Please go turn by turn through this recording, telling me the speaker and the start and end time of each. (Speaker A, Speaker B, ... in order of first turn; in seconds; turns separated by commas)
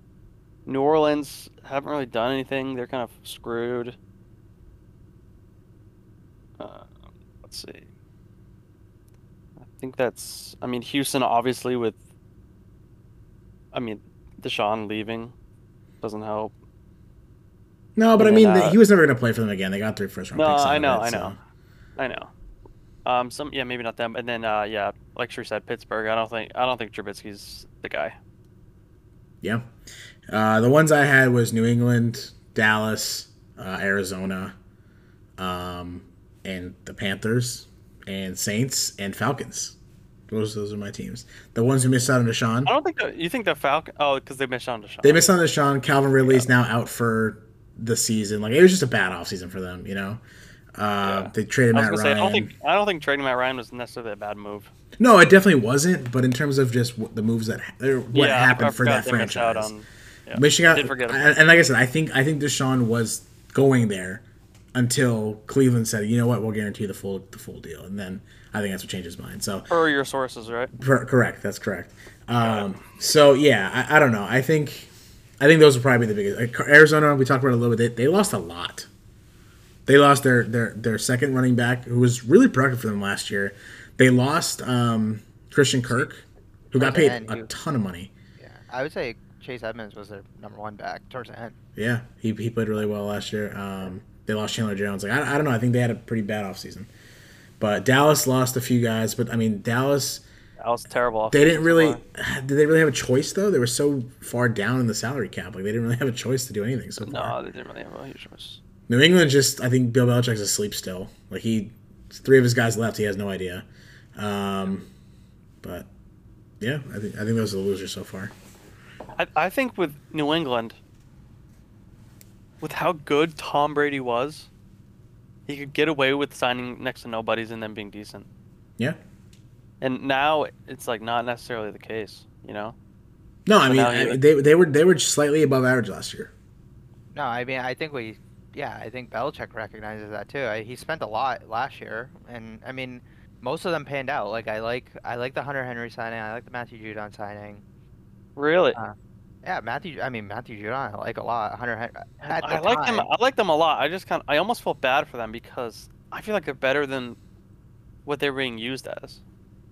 Speaker A: 0.7-4.0, Speaker A: 6.6-7.9, Speaker A: 9.6-12.0, Speaker A: 13.7-15.3, Speaker A: 16.0-16.5, Speaker B: 17.9-21.4, Speaker A: 18.2-18.8, Speaker A: 20.3-21.4, Speaker A: 22.0-22.3, Speaker A: 23.0-28.1, Speaker B: 29.4-29.7, Speaker B: 30.3-34.5, Speaker B: 35.4-39.8, Speaker B: 40.3-42.7, Speaker A: 42.6-45.3, Speaker B: 45.0-50.2, Speaker A: 46.2-46.5, Speaker B: 50.8-52.5, Speaker A: 51.0-54.7, Speaker B: 55.0-59.7, Speaker A: 58.1-61.3, Speaker B: 60.3-64.2, Speaker B: 64.7-69.7, Speaker A: 69.7-70.7, Speaker B: 70.8-74.9, Speaker A: 72.4-72.7, Speaker B: 75.4-78.9, Speaker B: 79.8-88.1, Speaker C: 86.7-87.5, Speaker C: 88.4-91.6, Speaker B: 91.8-96.9, Speaker B: 97.6-100.2, Speaker A: 100.6-102.0, Speaker B: 101.3-107.3, Speaker A: 107.0-108.6, Speaker B: 108.9-113.6, Speaker B: 114.2-114.9, Speaker B: 115.6-115.9, Speaker B: 116.6-118.3, Speaker A: 119.2-120.8, Speaker A: 122.6-124.5, Speaker A: 125.5-128.3, Speaker A: 129.8-132.8, Speaker B: 133.4-136.3, Speaker A: 133.7-134.2, Speaker C: 137.1-147.6, Speaker A: 148.3-148.8, Speaker C: 148.7-153.1, Speaker A: 152.2-157.2, Speaker A: 158.1-159.2